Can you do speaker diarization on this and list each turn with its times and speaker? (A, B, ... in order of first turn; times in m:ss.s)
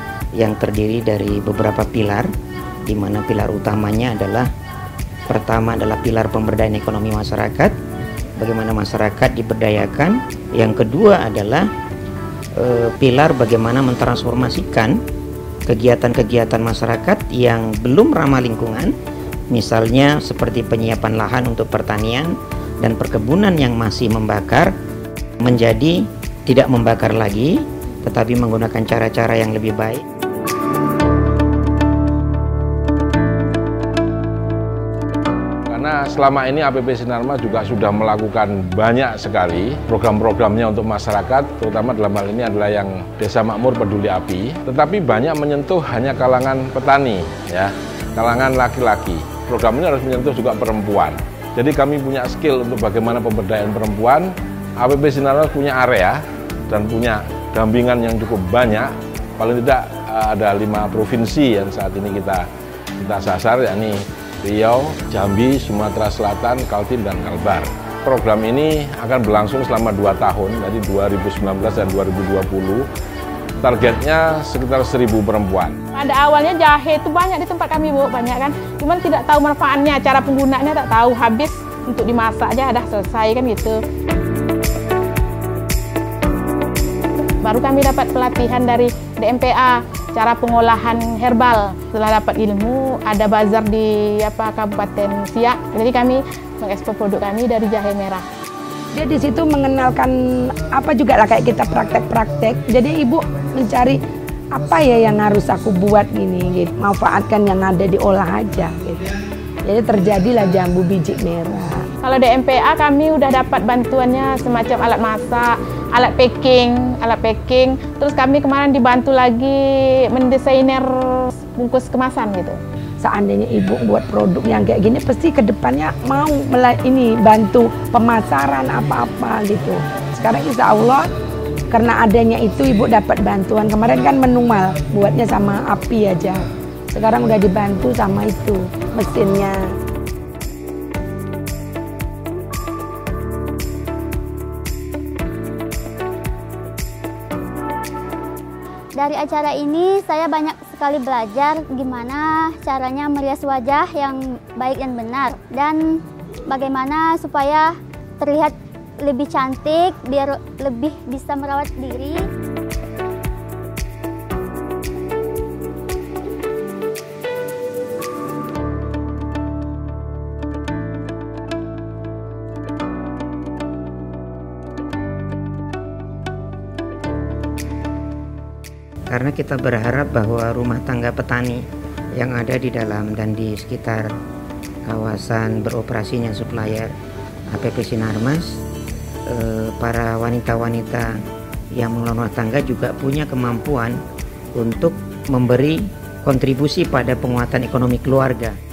0:00.4-0:02.3 A
0:02.8-0:04.5 A
0:05.3-0:07.7 A
0:08.4-0:11.7 A
0:12.6-0:15.0 A
0:15.7-0:18.9 A
0:19.5-0:24.7 A
0:25.4-0:30.0 A
0:35.7-1:02.4 B
1:03.0-1:12.8 B
1:13.6-1:15.8 B
1:15.9-1:23.8 C
1:27.4-1:38.2 C
1:38.9-1:44.0 D
1:44.5-1:49.1 D
1:49.6-1:51.8 D
1:52.0-2:02.6 C
2:03.0-2:11.1 D
2:11.7-2:19.7 D
2:29.0-2:42.2 E
2:59.1-3:01.6 A
3:02.2-3:04.1 A
3:04.8-3:06.9 A
3:07.5-3:08.6 A
3:09.3-3:11.2 A
3:11.8-3:14.0 A
3:14.6-3:18.6 A